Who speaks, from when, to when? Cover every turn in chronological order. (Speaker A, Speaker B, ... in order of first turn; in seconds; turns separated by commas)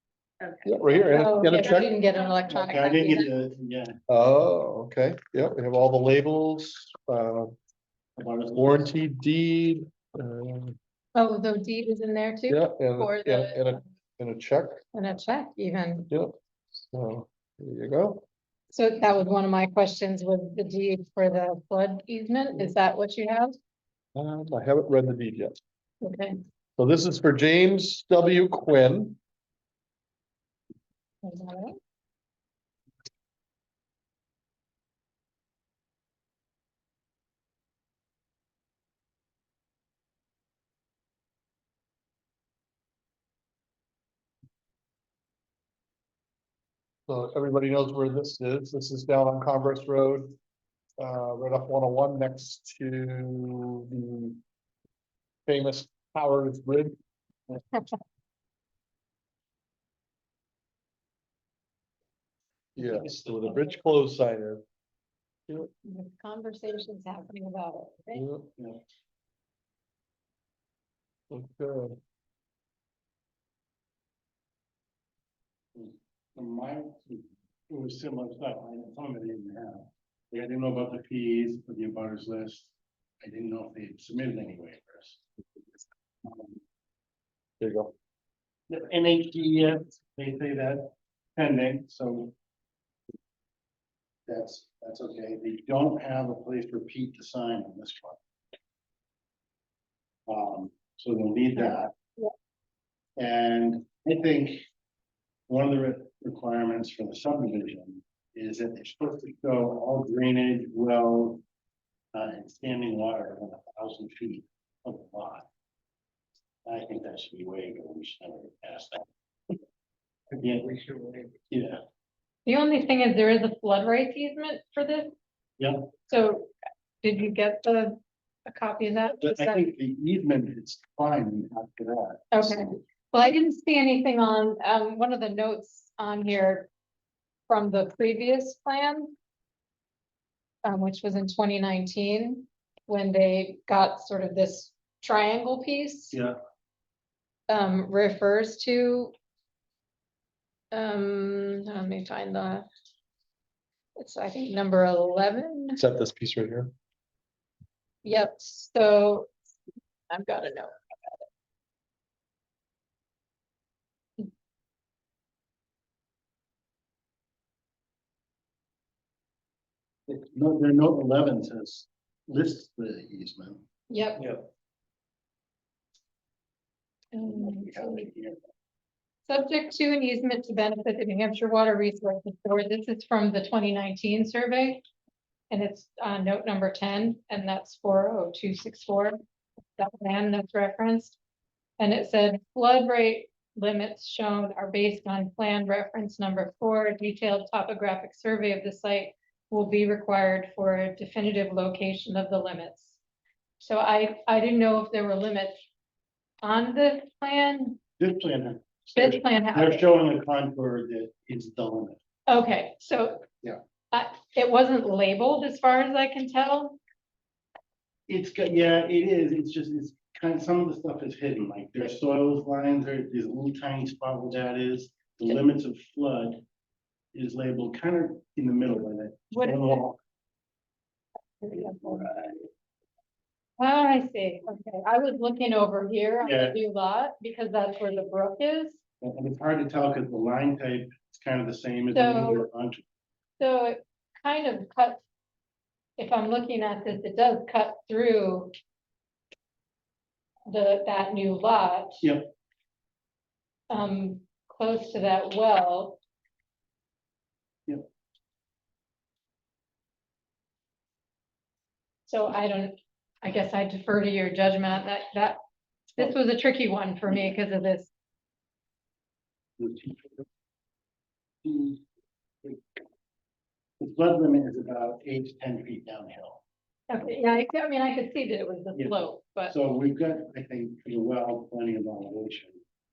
Speaker A: 0.4-3.1, Speaker B: 0.6-1.9, Speaker C: 1.1-3.3, Speaker D: 2.5-4.0, Speaker B: 4.1-7.5, Speaker D: 8.2-8.9, Speaker B: 8.5-10.8, Speaker C: 11.1-13.8, Speaker B: 12.5-14.8, Speaker C: 14.9-16.1, Speaker B: 16.1-18.2, Speaker C: 18.7-23.6, Speaker B: 24.1-25.6, Speaker C: 26.0-26.4, Speaker B: 26.8-29.2, Speaker C: 31.2-31.8, Speaker B: 47.1-50.3, Speaker B: 51.0-54.4, Speaker B: 55.5-56.9, Speaker B: 62.8-64.6, Speaker C: 65.8-68.3, Speaker B: 68.1-68.5, Speaker B: 71.3-72.0, Speaker D: 75.7-85.2, Speaker D: 86.2-86.6, Speaker B: 87.6-87.9, Speaker D: 88.7-92.3, Speaker D: 94.3-98.2, Speaker D: 100.3-101.9, Speaker C: 101.6-102.3, Speaker D: 103.2-104.6, Speaker D: 105.5-111.4, Speaker D: 112.1-115.5, Speaker D: 116.7-119.6, Speaker D: 120.3-121.8, Speaker C: 122.5-125.1, Speaker D: 125.6-125.9, Speaker C: 126.1-126.5, Speaker C: 127.0-129.7, Speaker D: 129.2-132.7, Speaker C: 132.3-136.7, Speaker C: 137.5-139.1, Speaker C: 140.6-146.2, Speaker C: 147.5-149.1, Speaker C: 150.7-152.7, Speaker C: 154.0-155.8, Speaker B: 155.8-156.7, Speaker C: 158.0-159.3, Speaker C: 160.1-161.2, Speaker D: 170.1-173.6, Speaker C: 173.9-174.2, Speaker C: 177.1-178.1, Speaker D: 177.2-178.4, Speaker C: 179.2-184.8, Speaker C: 185.5-189.2, Speaker C: 189.8-191.2, Speaker C: 191.8-203.0, Speaker C: 203.6-205.6, Speaker C: 206.4-207.8, Speaker D: 208.0-212.0, Speaker C: 208.9-209.8, Speaker C: 212.3-213.2, Speaker C: 213.9-216.8, Speaker D: 218.1-226.4, Speaker D: 227.1-230.0, Speaker C: 229.3-229.8, Speaker C: 231.4-232.1, Speaker D: 231.9-232.3, Speaker C: 233.6-238.8, Speaker D: 236.2-236.6, Speaker D: 239.0-242.8, Speaker C: 241.9-242.4, Speaker C: 243.4-245.0, Speaker C: 246.0-248.5, Speaker C: 250.5-252.0, Speaker D: 252.0-252.3, Speaker C: 253.7-256.0, Speaker C: 262.1-265.4, Speaker C: 265.9-267.9, Speaker D: 269.6-270.2, Speaker D: 271.4-271.8, Speaker D: 272.4-272.8, Speaker D: 273.8-276.4, Speaker C: 276.9-279.5, Speaker D: 279.5-282.6